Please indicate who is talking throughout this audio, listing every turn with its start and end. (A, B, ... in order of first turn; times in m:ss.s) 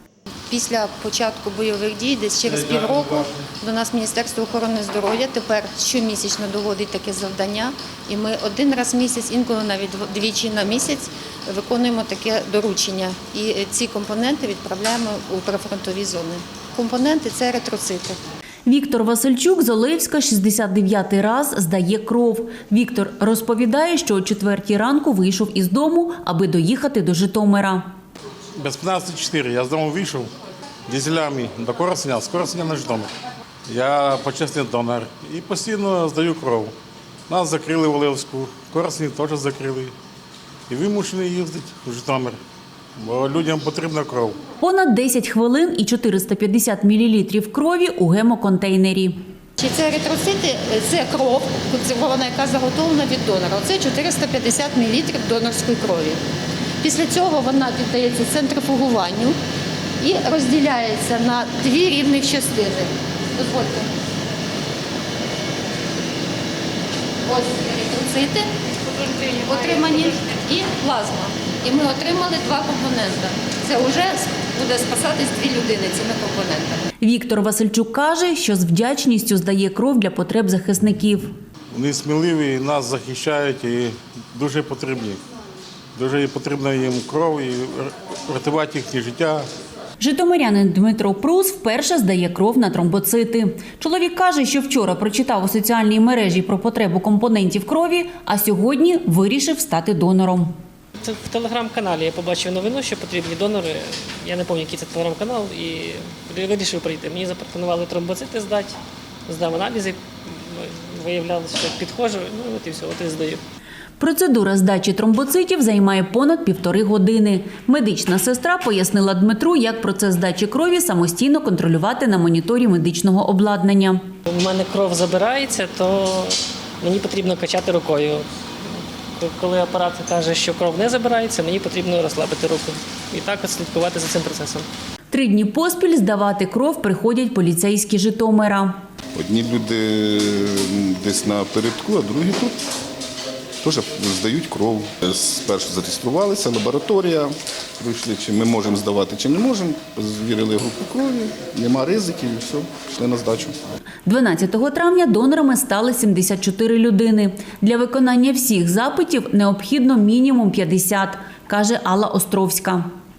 0:00.5-0:18.2 A
0:02.7-0:03.2 B
0:18.6-0:27.8 C
0:28.6-0:30.3 B
0:30.9-0:33.1 B
0:33.7-0:36.7 B
0:37.3-0:39.9 B
0:40.7-0:42.4 B
0:43.0-0:44.4 B
0:44.6-0:49.1 C
0:49.6-0:56.2 A
0:56.8-0:59.4 A
1:00.0-1:03.9 A
1:07.2-1:16.8 A
1:17.0-1:21.3 C
1:21.7-1:25.2 B
1:25.9-1:29.5 B
1:30.0-1:40.5 C
1:41.0-1:53.4 D
1:54.0-2:04.0 C
2:04.3-2:14.7 D
2:15.1-2:18.7 C
2:19.1-2:22.6 E
2:23.6-2:33.5 E
2:34.0-2:42.8 C